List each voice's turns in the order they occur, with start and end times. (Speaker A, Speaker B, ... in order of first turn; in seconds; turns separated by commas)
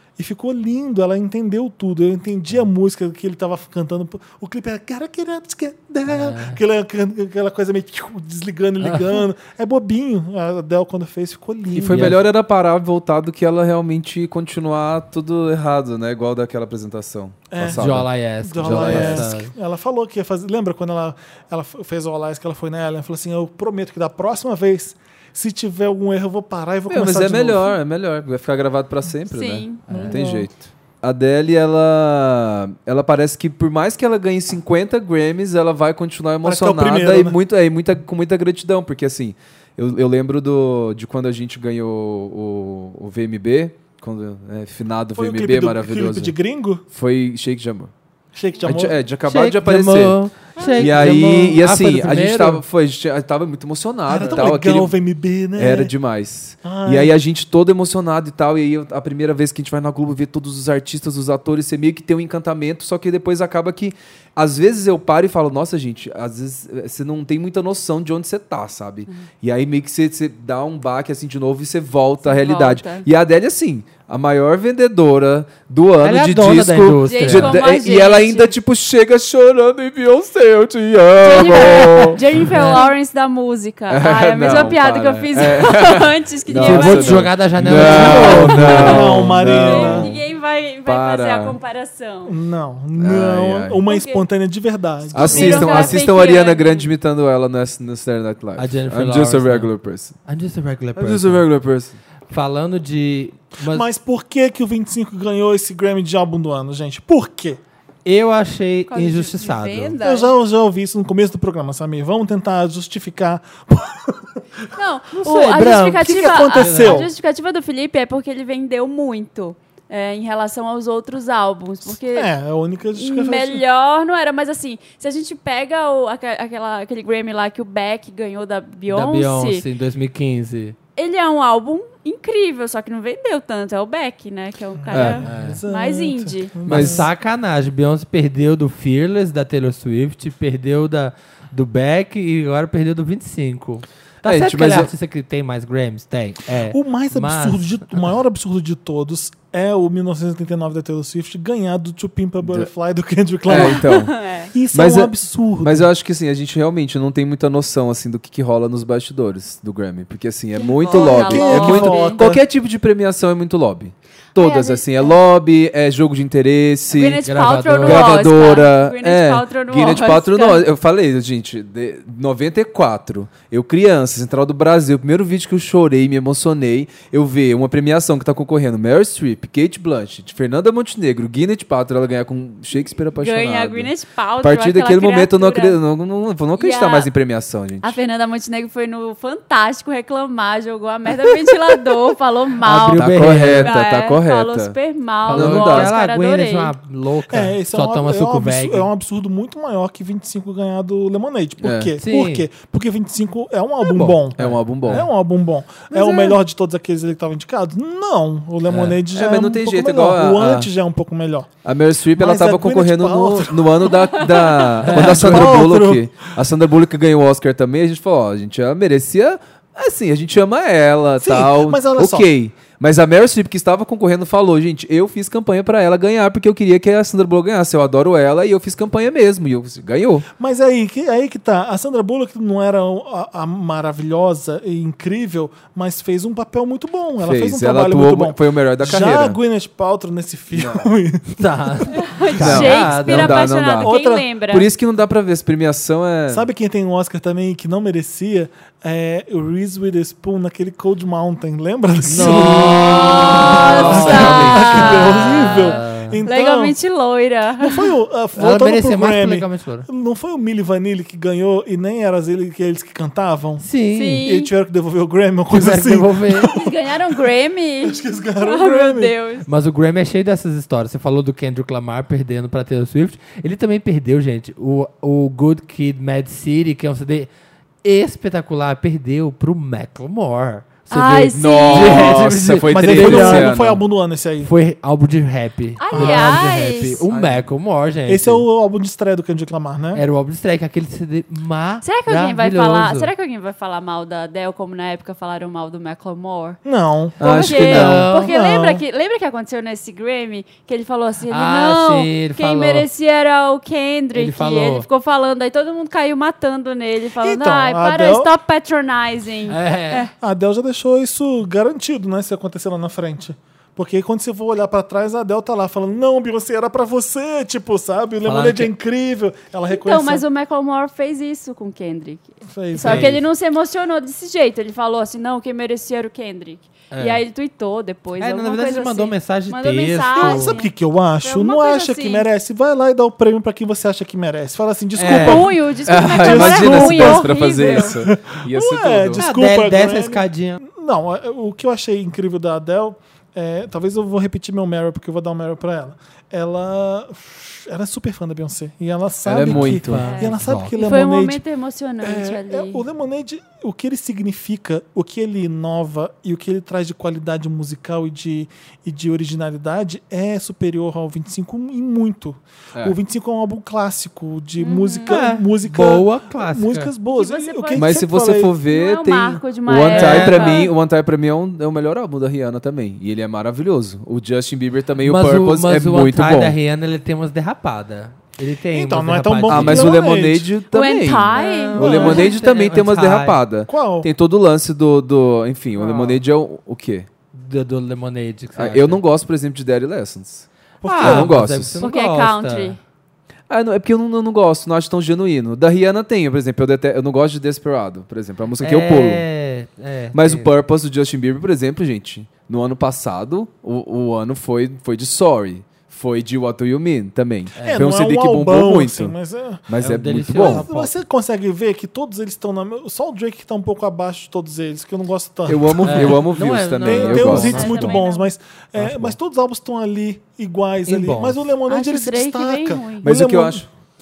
Speaker A: 0.2-12.2, Speaker B: 6.1-6.6, Speaker B: 8.8-9.2, Speaker C: 11.7-19.3, Speaker B: 11.9-12.2, Speaker A: 17.5-27.8, Speaker B: 17.7-19.5, Speaker C: 26.9-46.3, Speaker D: 29.3-29.9, Speaker B: 29.9-30.2, Speaker A: 29.9-30.5, Speaker A: 36.4-37.4, Speaker A: 45.1-46.8, Speaker C: 46.9-47.9, Speaker A: 48.4-49.0, Speaker C: 48.6-50.2, Speaker B: 49.3-52.6, Speaker A: 50.6-51.0, Speaker C: 50.8-54.9, Speaker A: 54.1-55.9, Speaker C: 55.6-82.2, Speaker A: 56.6-57.2, Speaker D: 72.2-73.1, Speaker B: 76.0-77.6, Speaker D: 77.1-78.5, Speaker D: 81.2-88.4, Speaker B: 82.5-82.9, Speaker C: 83.9-90.2, Speaker B: 86.5-89.5, Speaker A: 88.0-90.2, Speaker D: 89.5-92.3, Speaker C: 90.9-91.6, Speaker A: 92.3-96.0, Speaker C: 93.0-93.8, Speaker D: 93.9-94.2, Speaker C: 95.1-100.2, Speaker D: 95.2-96.9, Speaker B: 98.6-99.7, Speaker B: 100.3-101.5, Speaker C: 101.0-102.0, Speaker B: 102.3-103.9, Speaker A: 103.6-107.6, Speaker B: 108.0-110.0, Speaker D: 108.9-110.3, Speaker A: 110.0-114.6, Speaker D: 114.8-122.3, Speaker B: 115.1-117.0, Speaker A: 116.0-117.1, Speaker A: 122.1-123.6, Speaker D: 122.9-129.7, Speaker B: 128.9-130.8, Speaker D: 131.0-136.6, Speaker A: 134.8-137.1, Speaker C: 134.9-135.2, Speaker B: 135.2-135.6, Speaker B: 136.7-148.0, Speaker C: 136.7-137.1, Speaker C: 144.2-144.9, Speaker A: 146.7-153.9, Speaker C: 152.4-152.7, Speaker C: 153.5-154.2, Speaker D: 153.5-154.5, Speaker A: 154.5-155.9, Speaker C: 154.7-167.2, Speaker D: 160.6-162.2, Speaker A: 160.9-162.4, Speaker D: 164.4-165.2, Speaker D: 166.9-170.7, Speaker B: 167.3-168.1, Speaker C: 167.8-188.0, Speaker D: 183.2-185.8, Speaker D: 186.6-187.1, Speaker D: 187.8-196.7, Speaker B: 192.6-193.7, Speaker C: 192.9-194.8, Speaker B: 195.3-198.9, Speaker C: 195.3-195.9, Speaker A: 197.3-211.5, Speaker C: 201.6-201.9, Speaker B: 202.0-202.5, Speaker B: 203.8-205.1, Speaker C: 204.4-205.1, Speaker D: 205.9-206.4, Speaker B: 208.7-209.0, Speaker C: 209.1-210.7, Speaker C: 211.6-230.3, Speaker A: 212.1-214.0, Speaker D: 214.2-214.7, Speaker B: 214.8-215.5, Speaker A: 214.8-216.2, Speaker A: 221.2-222.3, Speaker A: 230.4-241.9, Speaker C: 237.2-239.4, Speaker C: 240.5-240.9, Speaker B: 241.4-243.4, Speaker D: 241.9-244.7, Speaker C: 242.4-243.9, Speaker A: 243.8-244.3, Speaker C: 244.5-246.5, Speaker A: 246.3-256.8, Speaker B: 252.1-254.7, Speaker C: 252.1-255.1, Speaker D: 253.1-257.9, Speaker B: 255.4-256.2, Speaker A: 257.6-263.7, Speaker B: 258.4-259.9, Speaker B: 263.6-264.3, Speaker D: 263.9-264.5, Speaker A: 264.2-267.2, Speaker B: 265.5-266.5, Speaker D: 266.5-269.5, Speaker A: 267.8-269.1, Speaker B: 269.5-277.3, Speaker B: 277.8-283.5, Speaker D: 280.9-282.2, Speaker C: 281.3-283.8, Speaker A: 282.7-284.5, Speaker B: 284.4-288.4, Speaker D: 285.8-287.0, Speaker A: 285.9-286.5, Speaker C: 287.1-287.4, Speaker A: 288.1-290.0, Speaker B: 289.9-293.1, Speaker D: 291.8-296.6, Speaker A: 296.6-298.8, Speaker D: 297.2-310.1, Speaker C: 297.2-298.1, Speaker B: 297.5-298.3, Speaker B: 301.3-302.9, Speaker B: 304.1-304.9, Speaker A: 307.2-308.3, Speaker B: 309.5-310.1, Speaker A: 310.2-320.2, Speaker B: 318.2-318.7, Speaker D: 319.7-330.7, Speaker A: 322.4-323.2, Speaker B: 322.8-323.2, Speaker B: 326.9-327.2, Speaker B: 328.2-330.5, Speaker A: 330.1-351.4, Speaker D: 331.2-332.3, Speaker B: 335.0-335.4, Speaker D: 335.0-338.0, Speaker C: 335.9-339.2, Speaker B: 339.2-340.6, Speaker C: 349.2-350.1, Speaker B: 349.4-350.8, Speaker D: 350.1-352.8, Speaker A: 352.0-368.5, Speaker D: 364.6-365.1, Speaker B: 365.1-366.9, Speaker D: 367.1-368.1, Speaker C: 367.8-376.6, Speaker D: 368.6-370.7, Speaker B: 369.9-370.7, Speaker B: 375.0-379.9, Speaker A: 378.7-380.5, Speaker C: 379.5-387.1, Speaker D: 380.7-382.3, Speaker B: 381.3-383.4, Speaker A: 381.8-382.4, Speaker A: 383.7-384.1, Speaker B: 385.8-386.2, Speaker B: 387.3-389.0, Speaker C: 388.6-390.5, Speaker A: 390.8-391.5, Speaker B: 390.9-392.8, Speaker C: 391.0-391.8, Speaker D: 391.8-392.8, Speaker C: 393.5-399.2, Speaker B: 398.6-400.5, Speaker C: 400.1-409.1, Speaker B: 407.6-407.9, Speaker A: 407.6-409.6, Speaker C: 409.7-410.7, Speaker B: 409.8-411.0, Speaker A: 410.4-416.3, Speaker C: 415.5-417.8, Speaker B: 415.8-418.0, Speaker A: 416.8-423.7, Speaker D: 417.4-418.3, Speaker B: 418.8-419.1, Speaker B: 420.9-421.5, Speaker D: 421.7-423.1, Speaker C: 423.0-423.7